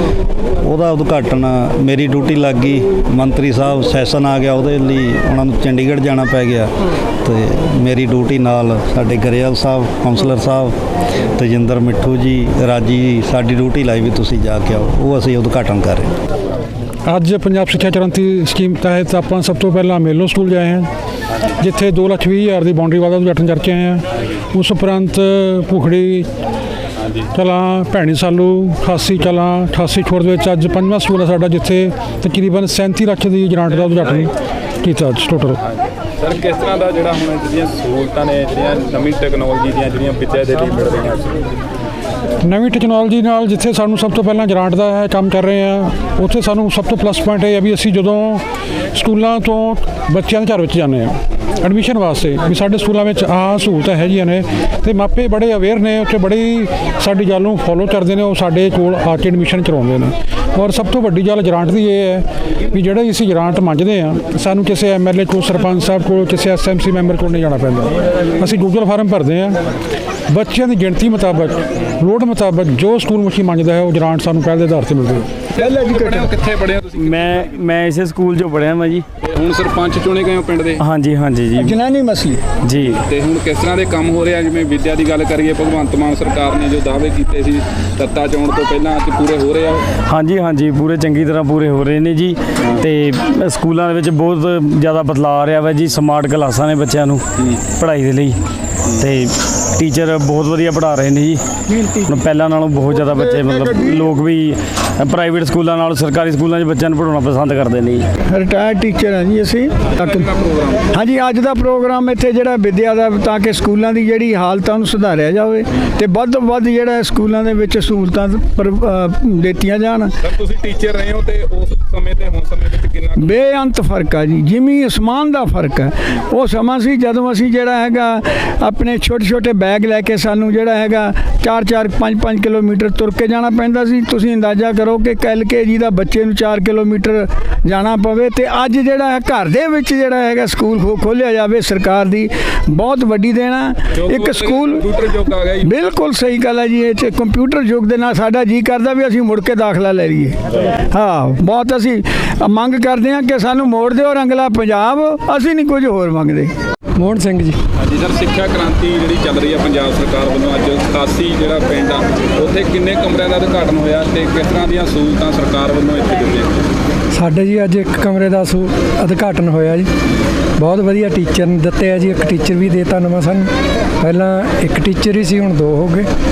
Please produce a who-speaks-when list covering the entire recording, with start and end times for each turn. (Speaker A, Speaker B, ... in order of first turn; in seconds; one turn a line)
Speaker A: 0.6-10.8
Speaker A: 11.3-16.1
Speaker B: 17.1-20.9
Speaker B: 21.4-26.3
Speaker B: 27.3-35.6
Speaker C: 36.2-41.5
Speaker B: 42.4-48.4
Speaker B: 48.9-69.6
Speaker B: 70.3-75.3
Speaker C: 75.5-77.5
Speaker D: 75.6-76.3
Speaker E: 77.0-79.0
Speaker C: 79.2-80.8
Speaker E: 80.8-81.8
Speaker D: 81.6-82.4
Speaker E: 82.6-83.0
Speaker C: 82.8-90.0
Speaker E: 90.0-98.4
Speaker E: 99.0-108.0
Speaker D: 108.3-110.2
Speaker C: 110.0-110.8
Speaker D: 110.9-120.1
Speaker C: 120.2-123.3
Speaker D: 123.2-144.9
Speaker C: 143.9-145.7
Speaker D: 145.6-156.5
Speaker F: 157.0-157.6
Speaker C: 157.8-166.6
Speaker F: 167.1-169.9
Speaker F: 170.6-173.5
Speaker F: 174.0-176.1